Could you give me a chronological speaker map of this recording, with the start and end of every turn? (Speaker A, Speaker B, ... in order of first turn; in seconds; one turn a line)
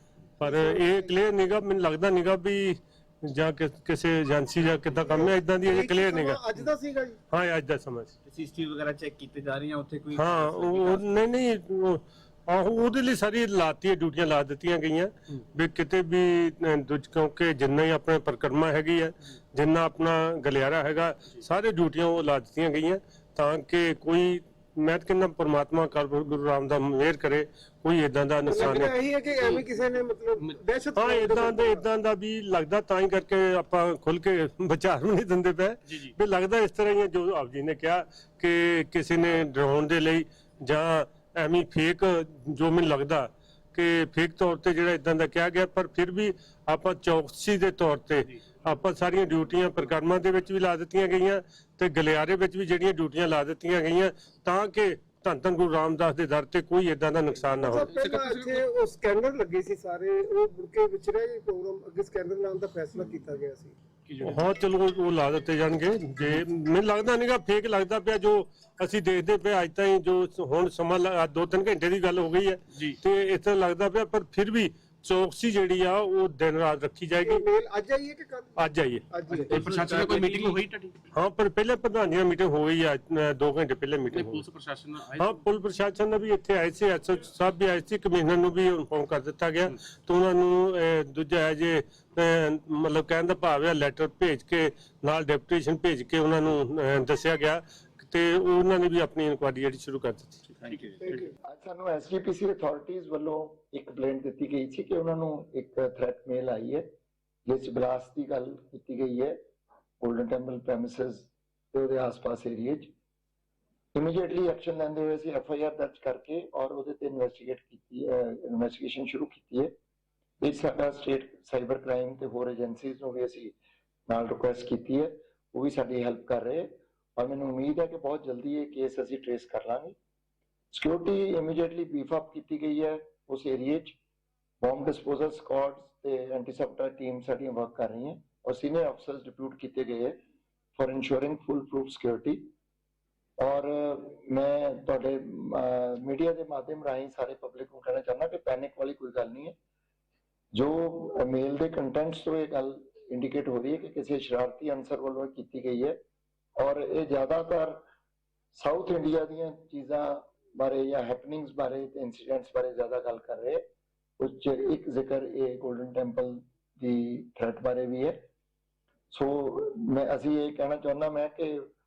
Speaker A: 0.4-6.5
Speaker B: 0.4-1.2
Speaker B: 5.0-7.2
Speaker A: 7.3-8.1
Speaker C: 8.2-11.2
Speaker A: 10.2-28.9
Speaker B: 28.5-31.9
Speaker A: 31.0-57.9
Speaker B: 57.6-63.8
Speaker D: 57.9-58.6
Speaker D: 64.0-64.5
Speaker A: 64.2-77.4
Speaker B: 77.2-79.5
Speaker A: 78.6-79.6
Speaker D: 79.3-81.0
Speaker C: 79.6-80.6
Speaker A: 81.1-84.5
Speaker D: 84.1-85.5
Speaker A: 85.2-100.4
Speaker C: 100.5-101.2
Speaker E: 101.4-106.9
Speaker E: 107.5-109.4
Speaker E: 110.0-112.9
Speaker E: 114.0-119.7
Speaker E: 120.4-123.5
Speaker E: 124.1-130.0
Speaker E: 130.7-134.0
Speaker E: 134.6-140.2
Speaker E: 140.8-142.5
Speaker E: 143.4-149.6
Speaker E: 150.5-156.0
Speaker E: 156.6-157.8
Speaker E: 158.5-163.6
Speaker E: 164.2-168.2
Speaker E: 169.1-171.7